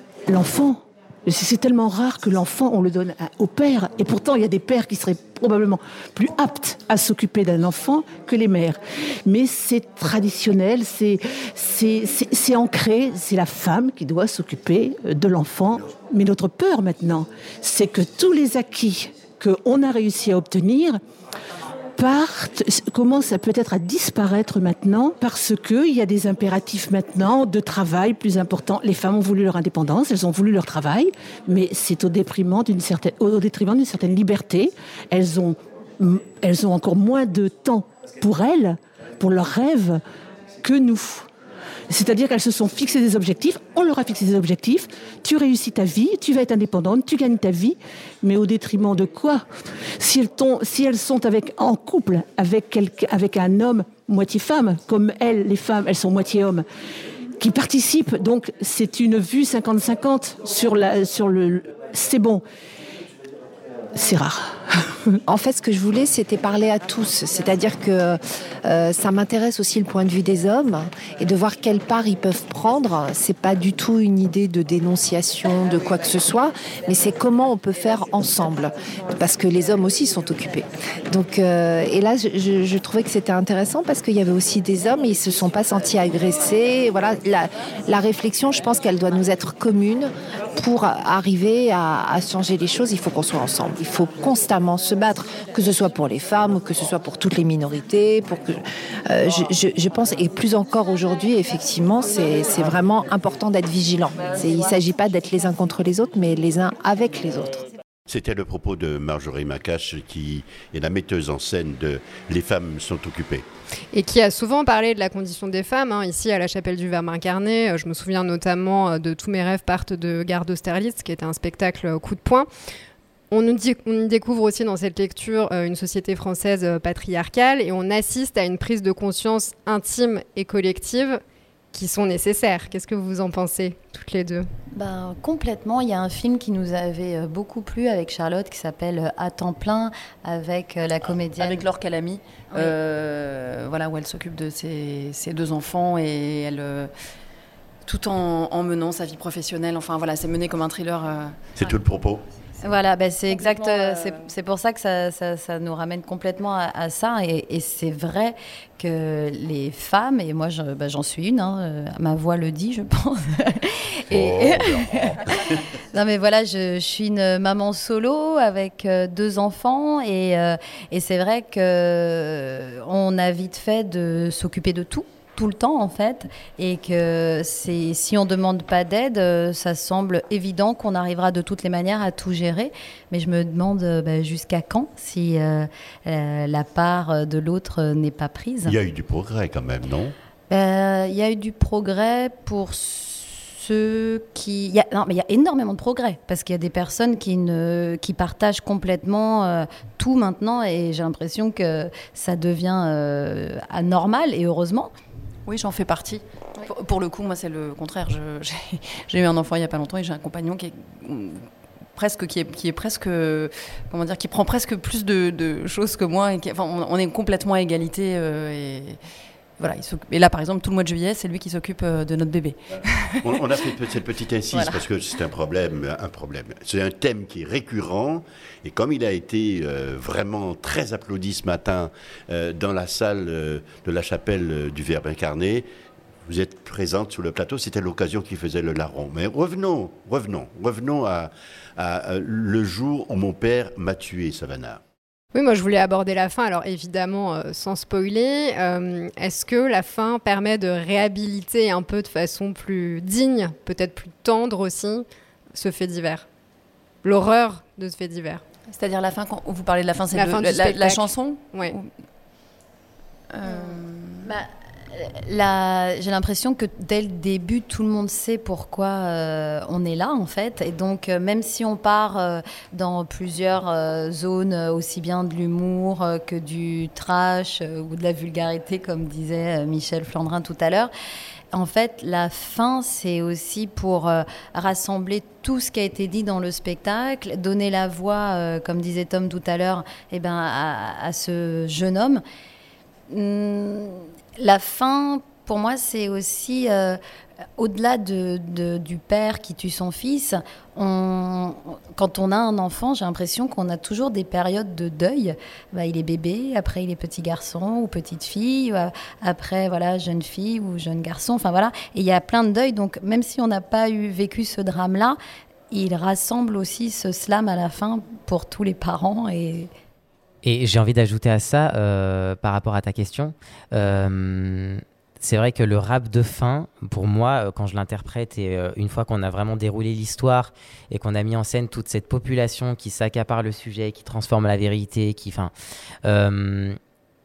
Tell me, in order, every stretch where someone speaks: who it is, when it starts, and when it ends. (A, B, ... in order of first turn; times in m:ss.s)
0:00.3-0:21.0 A
0:22.0-0:40.0 A
0:40.6-0:41.3 A
0:41.9-0:49.4 A
0:50.0-0:56.6 A
0:57.4-1:02.4 A
1:04.0-1:04.6 A
1:05.3-1:47.6 B
1:48.1-1:53.5 C
1:53.9-2:02.5 D
2:03.3-2:11.2 D
2:11.7-2:14.5 D
2:14.8-2:21.6 E
2:21.4-2:26.9 F
2:22.5-2:22.8 E
2:27.8-2:31.8 F
2:31.6-2:32.2 C
2:32.6-2:45.2 E
2:33.6-2:34.1 F
2:44.1-2:45.6 C
2:45.9-3:08.8 E
3:08.7-3:10.2 C
3:10.5-3:24.9 E
3:25.5-3:39.0 F
3:39.6-3:43.7 F
3:43.2-3:55.7 C
3:44.5-3:44.8 F
3:56.3-4:04.8 C
4:05.3-4:16.3 D
4:17.0-4:18.4 D
4:18.7-4:21.9 F
4:20.1-4:21.7 D
4:23.3-4:24.3 F
4:23.5-4:40.9 E
4:41.5-4:52.2 E
4:53.1-4:57.0 E
4:57.6-5:15.2 E
5:15.7-5:19.7 E
5:20.4-5:35.5 G
5:36.0-5:36.8 G